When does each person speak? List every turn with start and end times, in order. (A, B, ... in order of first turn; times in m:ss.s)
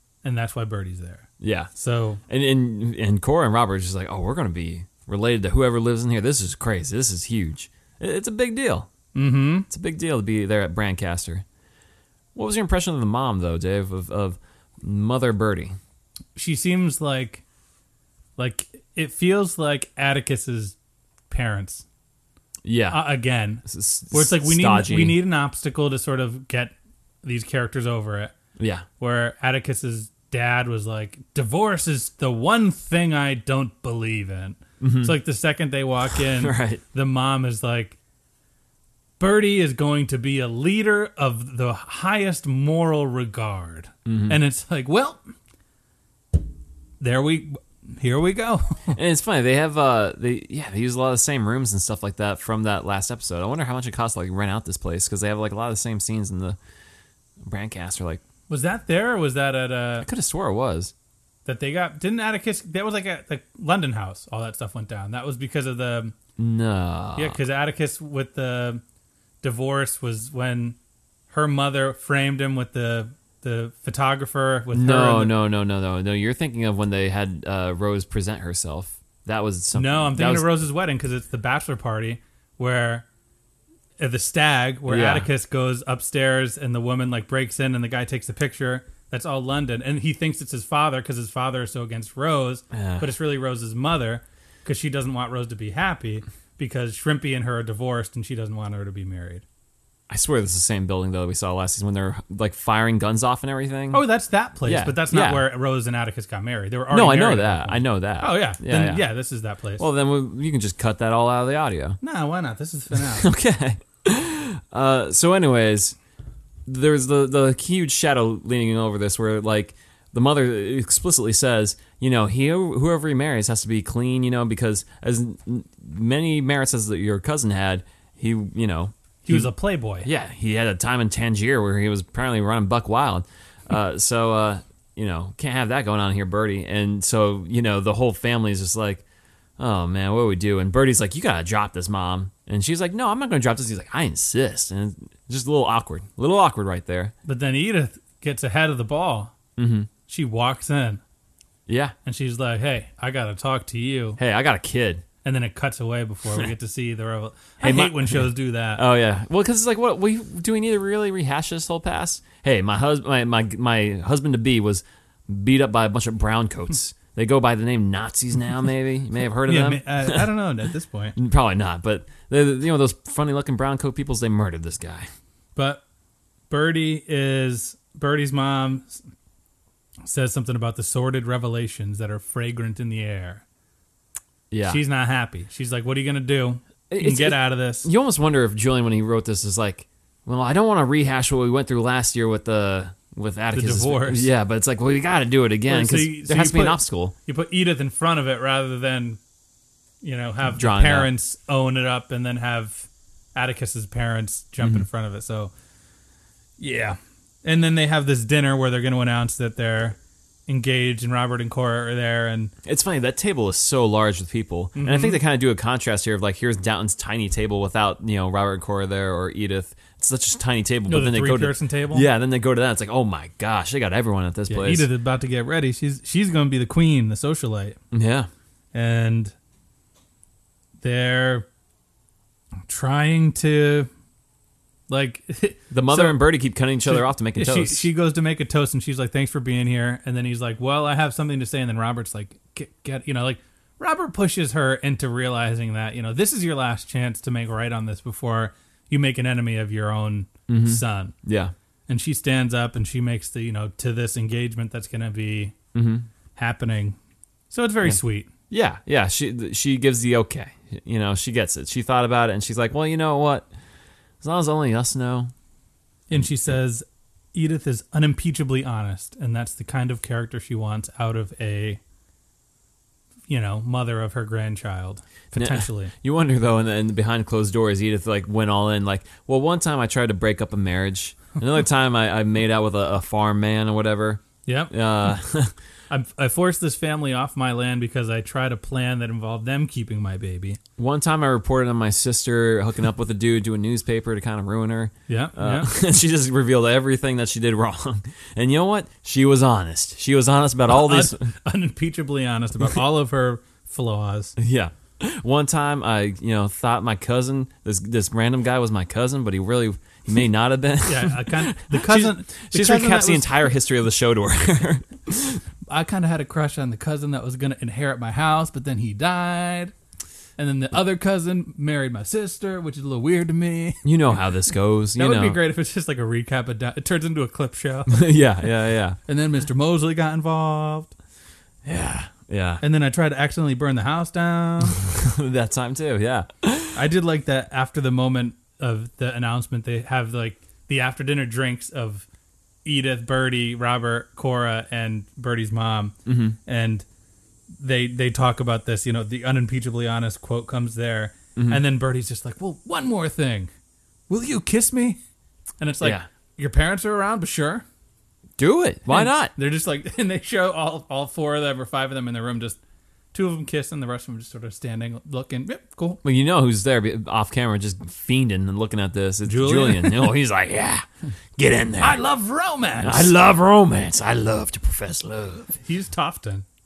0:00.2-0:02.2 A
0:01.4-0:01.7 B
0:02.3-0:08.9 B
0:09.1-0:09.7 A
0:09.7-0:11.4 B
0:12.4-0:15.8 B
0:16.4-0:17.4 A
0:18.4-0:20.8 A
0:21.3-0:21.9 A
0:22.6-0:23.1 B
0:22.9-0:28.3 A
0:23.6-0:25.2 B
0:28.6-0:28.9 B
0:29.0-0:38.0 A
0:34.8-0:35.2 B
0:36.1-0:36.8 B
0:39.2-0:45.2 A
0:44.1-0:44.4 B
0:47.0-0:49.0 A
0:48.9-0:56.6 B
0:57.4-0:58.2 B
0:58.5-1:00.1 A
1:00.0-1:00.9 B
1:01.5-1:06.2 A
1:06.4-1:07.4 B
1:07.2-1:08.8 A
1:09.4-1:10.8 A
1:11.3-1:15.4 A
1:14.7-1:20.5 B
1:19.8-1:23.1 A
1:24.0-1:39.4 A
1:24.9-1:25.3 B
1:32.7-1:33.1 B
1:40.1-1:44.0 B
1:43.9-1:49.8 A
1:44.6-1:45.4 B
1:46.9-1:49.0 B
1:49.8-1:52.0 B
1:52.0-1:53.3 A
1:53.0-1:56.0 B
1:56.7-2:09.5 B
2:09.2-2:10.1 A
2:10.0-2:19.0 B
2:19.6-2:27.1 B
2:27.2-2:29.3 A
2:29.6-2:29.9 B
2:30.1-2:31.0 A
2:31.7-2:32.0 B
2:32.0-2:34.2 A
2:34.2-2:35.0 B
2:35.2-2:38.8 A
2:37.6-2:50.3 B
2:49.5-2:51.2 A
2:51.2-2:55.1 B
2:55.6-2:55.8 A
2:56.5-2:59.0 A
3:00.0-3:03.4 A
3:04.5-3:04.8 B
3:04.6-3:07.9 A
3:06.9-3:17.2 B
3:13.5-3:14.3 A
3:15.7-3:19.2 A
3:20.0-3:25.5 A
3:20.5-3:21.1 B
3:26.6-3:32.5 A
3:32.6-3:44.9 B
3:34.8-3:35.2 A
3:40.9-3:42.1 A
3:44.5-3:47.8 A
3:47.9-3:48.3 B
3:48.7-3:49.3 A
3:50.8-3:51.5 A
3:52.7-3:53.9 A
3:54.9-3:56.2 A
3:55.7-3:57.9 B
3:56.9-4:11.2 A
4:10.5-4:11.5 B
4:11.9-4:15.6 A
4:15.7-4:16.1 B
4:16.4-4:17.0 A
4:17.5-4:18.3 A
4:18.5-4:23.5 B
4:24.2-4:25.3 B
4:26.1-4:31.8 A
4:33.3-4:35.9 A
4:35.4-4:45.5 B
4:44.5-4:44.7 A
4:45.9-4:50.6 A
4:50.8-5:01.3 B
4:55.1-4:55.7 A
5:00.7-5:04.4 A
5:04.4-5:15.4 B
5:10.8-5:13.4 A
5:15.7-5:19.7 A
5:20.4-5:24.2 A
5:23.8-5:25.4 B
5:25.0-5:28.1 A
5:27.9-5:29.0 B
5:29.1-5:30.9 A
5:31.6-5:32.6 B
5:32.6-5:34.8 A
5:34.8-5:36.8 B
5:36.8-5:42.1 A
5:42.6-5:46.8 A
5:46.1-5:46.4 B
5:47.6-5:53.5 A
5:54.1-5:55.0 A
5:55.6-5:57.6 A
5:58.4-5:59.3 B
5:58.9-6:02.6 A
6:03.1-6:06.0 A
6:06.0-6:10.9 B
6:09.2-6:10.2 A
6:11.4-6:12.0 B
6:11.8-6:13.1 A
6:12.8-6:15.5 B
6:15.5-6:16.4 A